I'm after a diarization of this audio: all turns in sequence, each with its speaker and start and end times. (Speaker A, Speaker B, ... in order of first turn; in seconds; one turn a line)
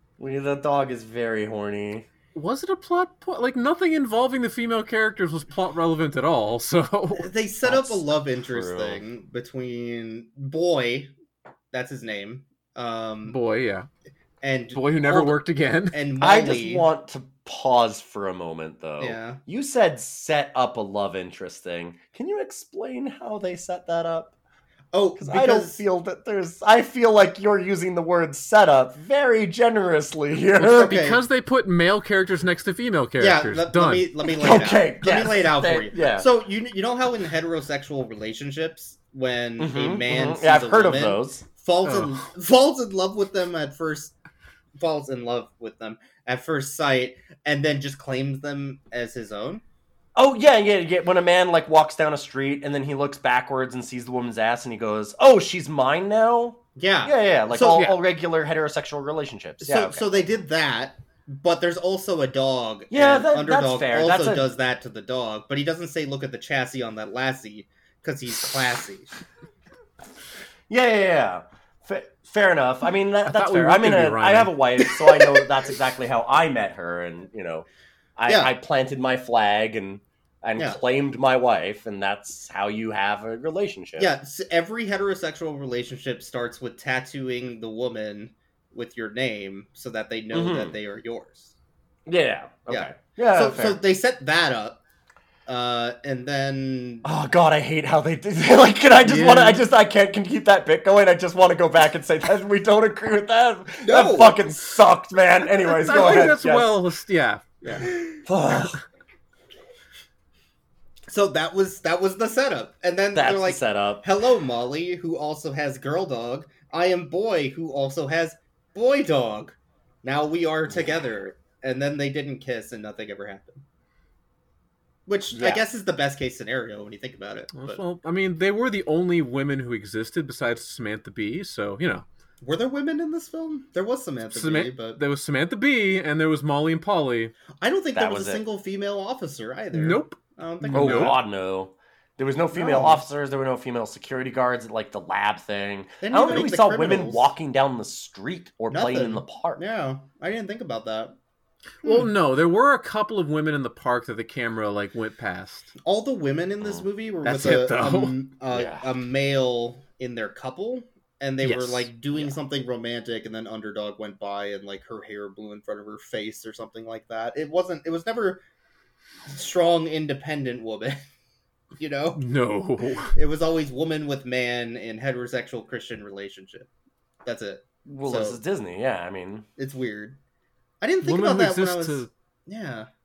Speaker A: 0.2-2.1
Speaker B: 2.3-7.3
Speaker C: 7.1-11.1
Speaker A: 7.7-9.0
Speaker C: 11.7-13.4
Speaker B: 13.2-13.9
Speaker C: 14.4-15.3
Speaker B: 14.7-16.0
Speaker C: 15.9-16.9
Speaker A: 16.2-24.3
Speaker C: 19.0-19.4
Speaker C: 24.9-25.8
Speaker A: 25.2-30.9
Speaker B: 30.6-34.1
Speaker C: 30.7-31.2
Speaker C: 33.2-44.1
Speaker A: 34.3-36.3
Speaker A: 39.6-41.4
Speaker B: 41.8-42.2
Speaker C: 44.8-49.6
Speaker A: 50.1-60.1
Speaker C: 56.8-57.9
Speaker C: 59.6-69.1
Speaker A: 62.9-64.5
Speaker A: 70.7-77.7
Speaker B: 73.3-74.5
Speaker A: 78.2-84.1
Speaker C: 78.3-78.5
Speaker C: 84.0-91.5
Speaker A: 90.3-90.8
Speaker A: 92.0-93.8
Speaker C: 92.7-94.8
Speaker C: 95.5-97.0
Speaker A: 97.0-106.7
Speaker B: 99.0-99.6
Speaker C: 103.8-104.4
Speaker B: 105.6-107.6
Speaker C: 107.6-108.2
Speaker A: 108.2-108.8
Speaker C: 111.1-123.6
Speaker A: 113.1-114.1
Speaker C: 125.0-127.8
Speaker A: 125.3-125.6
Speaker B: 127.5-132.0
Speaker C: 132.4-135.0
Speaker B: 134.3-137.3
Speaker C: 137.6-141.2
Speaker A: 137.9-138.4
Speaker B: 139.7-141.2
Speaker A: 140.7-149.6
Speaker C: 142.5-143.0
Speaker C: 146.0-147.3
Speaker C: 148.7-151.2
Speaker B: 151.8-155.7
Speaker C: 151.8-152.1
Speaker C: 155.8-168.4
Speaker B: 157.2-158.2
Speaker A: 158.5-158.9
Speaker B: 161.4-161.9
Speaker C: 169.3-171.0
Speaker C: 171.8-172.2
Speaker B: 172.2-173.1
Speaker C: 173.1-176.7
Speaker C: 177.2-178.4
Speaker A: 177.8-179.4
Speaker C: 179.6-180.2
Speaker C: 180.8-182.9
Speaker B: 181.0-182.1